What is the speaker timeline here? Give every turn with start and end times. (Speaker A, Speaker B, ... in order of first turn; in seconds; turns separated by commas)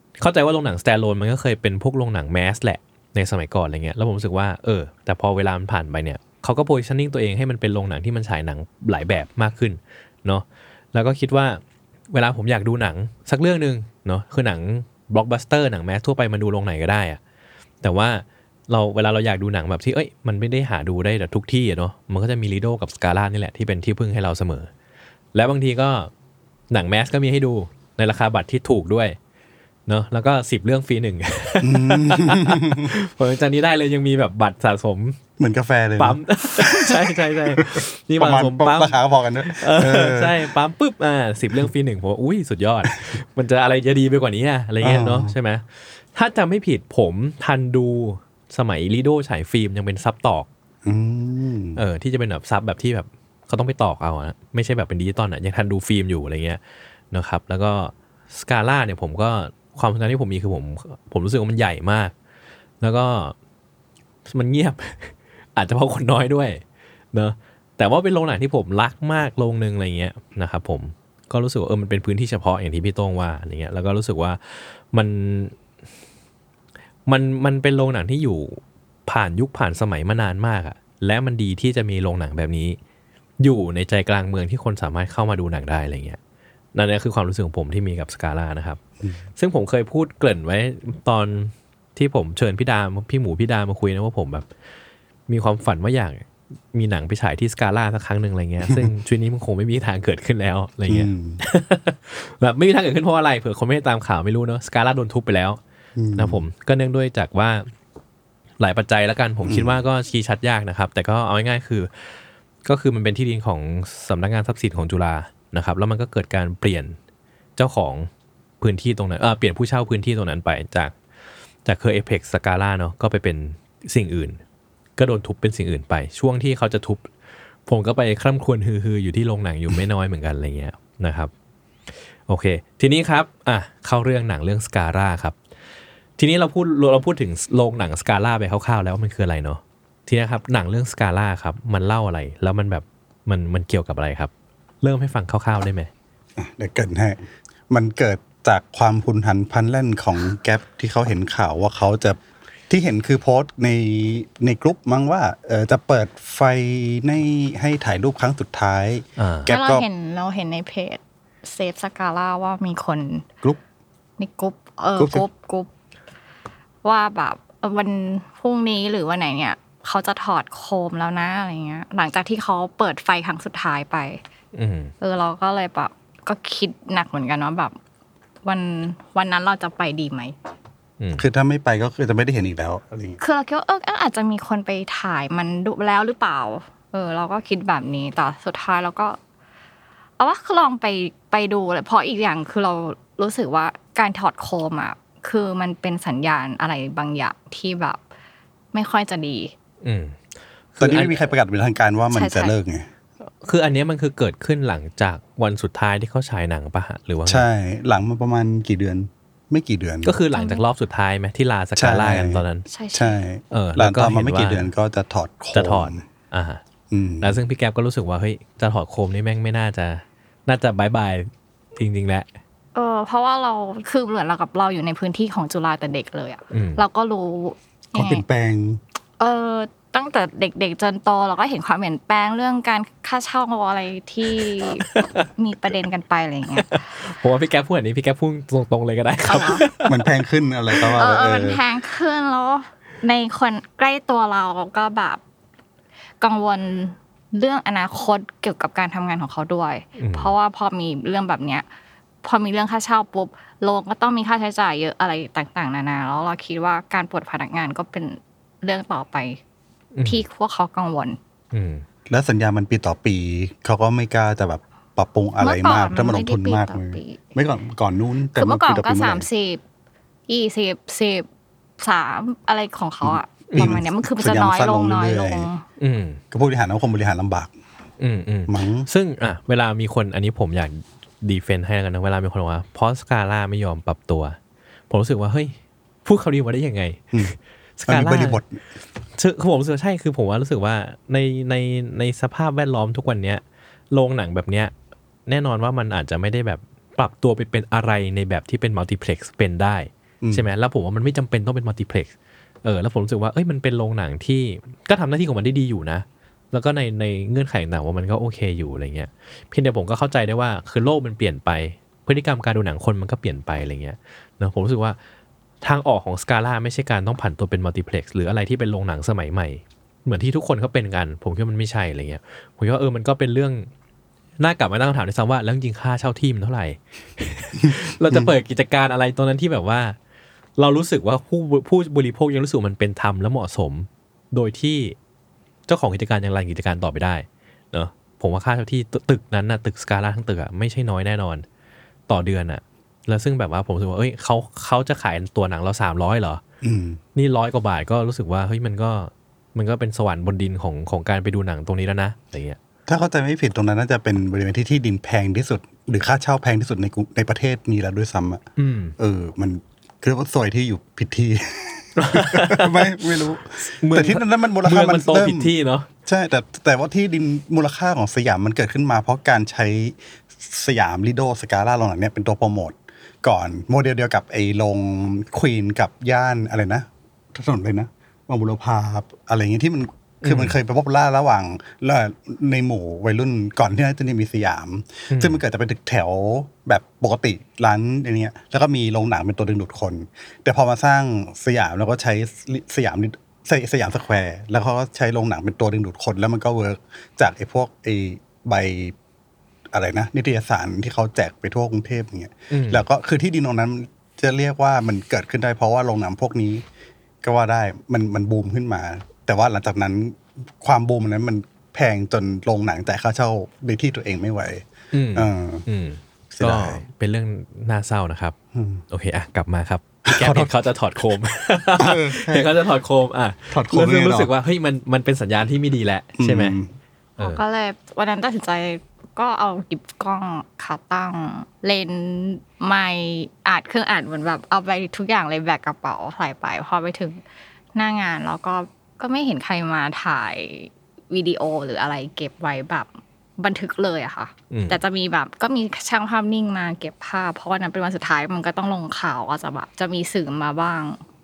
Speaker A: 0.2-17.2, Speaker A: 17.8-24.7, Speaker A: 25.3-26.1, Speaker A: 26.7-29.1, Speaker A: 29.9-35.2, Speaker B: 31.6-32.9, Speaker B: 35.4-40.5, Speaker A: 36.0-50.5, Speaker B: 44.8-45.3, Speaker B: 50.8-51.8, Speaker A: 51.8-56.6, Speaker A: 57.1-62.1, Speaker A: 62.8-63.3, Speaker A: 64.3-66.6, Speaker A: 67.1-75.5, Speaker A: 77.1-82.8, Speaker A: 83.4-86.2, Speaker A: 86.7-88.8, Speaker A: 89.4-94.5, Speaker A: 95.3-105.6, Speaker B: 98.6-98.9, Speaker B: 100.9-101.4, Speaker B: 106.0-106.4, Speaker A: 106.2-107.7, Speaker A: 108.6-117.0, Speaker B: 109.4-109.8, Speaker A: 117.6-118.1, Speaker A: 118.6-120.9, Speaker A: 121.6-124.4, Speaker A: 125.0-127.1, Speaker A: 127.7-131.3, Speaker A: 132.3-135.4, Speaker A: 136.2-144.3, Speaker A: 144.8-145.9, Speaker B: 146.4-147.2, Speaker B: 147.7-159.8, Speaker A: 159.2-159.5, Speaker C: 159.5-163.3, Speaker C: 164.2-165.7, Speaker B: 165.0-165.2, Speaker C: 166.8-174.2, Speaker A: 174.5-174.9, Speaker C: 175.0-177.8, Speaker C: 178.4-180.3, Speaker B: 181.2-183.2, Speaker C: 183.2-189.2, Speaker C: 190.2-198.0, Speaker C: 198.7-199.5, Speaker A: 199.8-200.2, Speaker A: 200.8-201.2, Speaker B: 200.8-202.9, Speaker C: 202.1-202.5, Speaker A: 203.4-207.4, Speaker B: 207.2-210.2, Speaker A: 210.0-212.7, Speaker C: 210.3-210.6, Speaker B: 211.8-212.4, Speaker C: 212.7-213.2, Speaker B: 212.9-216.0, Speaker A: 213.5-214.7, Speaker A: 215.5-216.6, Speaker B: 216.9-217.4, Speaker A: 217.2-222.3, Speaker C: 222.7-228.2, Speaker A: 226.5-226.8, Speaker B: 227.9-228.8, Speaker C: 229.2-236.8, Speaker A: 234.8-235.2, Speaker A: 236.6-240.1, Speaker C: 239.2-239.6, Speaker B: 239.7-241.6, Speaker C: 240.9-245.2, Speaker C: 246.2-251.6, Speaker A: 250.0-250.3, Speaker C: 252.2-259.4, Speaker A: 259.9-260.2, Speaker C: 260.0-261.2, Speaker A: 261.5-261.8, Speaker B: 262.1-269.2, Speaker C: 265.4-267.2, Speaker C: 268.4-269.6, Speaker C: 270.3-271.2, Speaker C: 271.8-275.6, Speaker B: 273.0-275.5, Speaker A: 275.8-276.2, Speaker B: 276.3-277.5, Speaker A: 278.0-284.4, Speaker B: 278.5-278.9, Speaker A: 284.9-285.5, Speaker A: 286.0-288.4, Speaker B: 287.9-288.5, Speaker A: 289.1-294.7, Speaker A: 295.3-302.1, Speaker A: 302.6-315.0, Speaker A: 315.6-323.7, Speaker A: 324.4-329.9, Speaker B: 327.7-328.3, Speaker A: 330.6-334.9, Speaker A: 335.7-341.4, Speaker A: 342.1-346.4, Speaker B: 346.6-347.0, Speaker A: 347.1-352.6, Speaker B: 352.9-358.4, Speaker A: 358.6-358.9, Speaker B: 359.0-365.5, Speaker A: 362.0-365.9, Speaker B: 366.0-398.9, Speaker A: 380.2-380.6, Speaker A: 385.1-385.4, Speaker B: 399.7-406.6, Speaker A: 402.5-402.8, Speaker B: 407.2-415.6, Speaker A: 414.9-418.3, Speaker B: 416.3-416.8, Speaker B: 418.5-418.8, Speaker A: 418.9-426.6, Speaker B: 420.1-420.5, Speaker B: 421.8-422.5, Speaker B: 423.5-424.3, Speaker B: 426.2-426.7, Speaker C: 427.2-437.2, Speaker C: 437.7-451.0, Speaker A: 444.5-444.8